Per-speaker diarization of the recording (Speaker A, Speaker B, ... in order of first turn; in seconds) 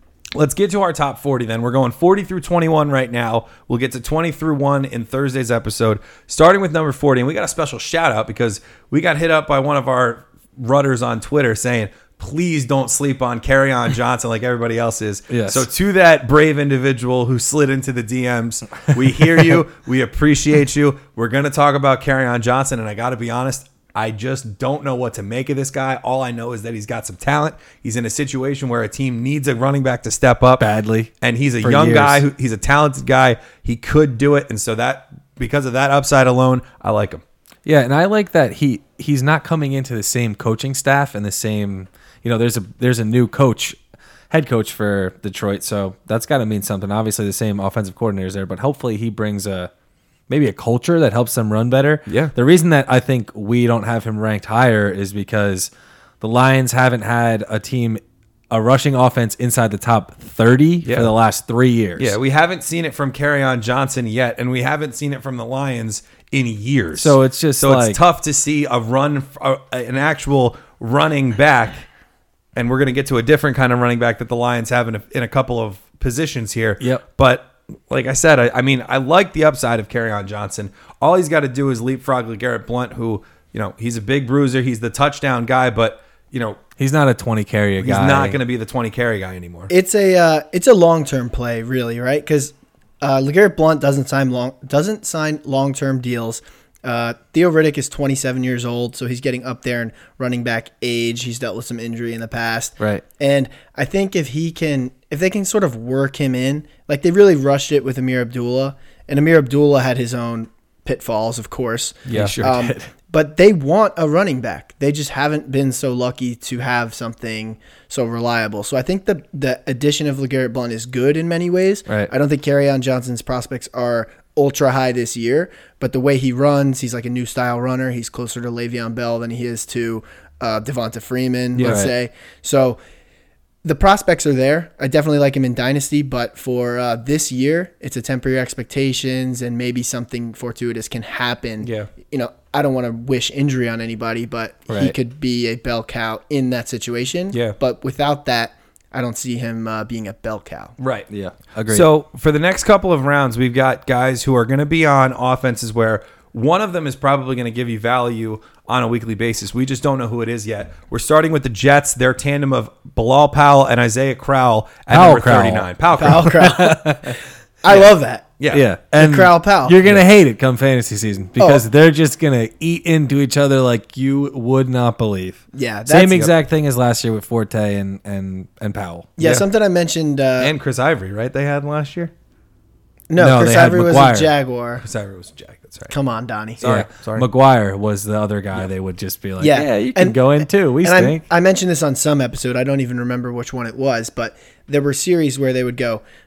Speaker A: 0.3-30.6, 31.2-37.2, 52.1-52.3, 60.8-61.1, 62.0-71.8, 72.5-86.6, 87.8-89.7, 131.5-131.8, 141.6-141.9, 150.8-151.1, 151.7-166.3, 168.4-168.7, 180.4-182.1, 184.8-185.9, 186.6-187.3
Speaker B: 15.3-15.7, 30.6-31.1, 31.6-32.2, 37.6-43.8, 44.3-49.7, 50.3-62.2, 66.9-68.0, 86.8-88.4, 112.1-112.9, 131.6-131.9, 144.7-144.9, 151.1-151.9, 164.9-167.2, 168.5-179.4, 183.2-184.3, 186.6-191.2
Speaker C: 89.7-132.8, 133.6-150.7, 165.9-168.3, 168.9-169.8, 171.4-171.6, 175.5-176.3, 179.2-180.5, 183.1-184.8, 185.9-186.6, 189.4-196.0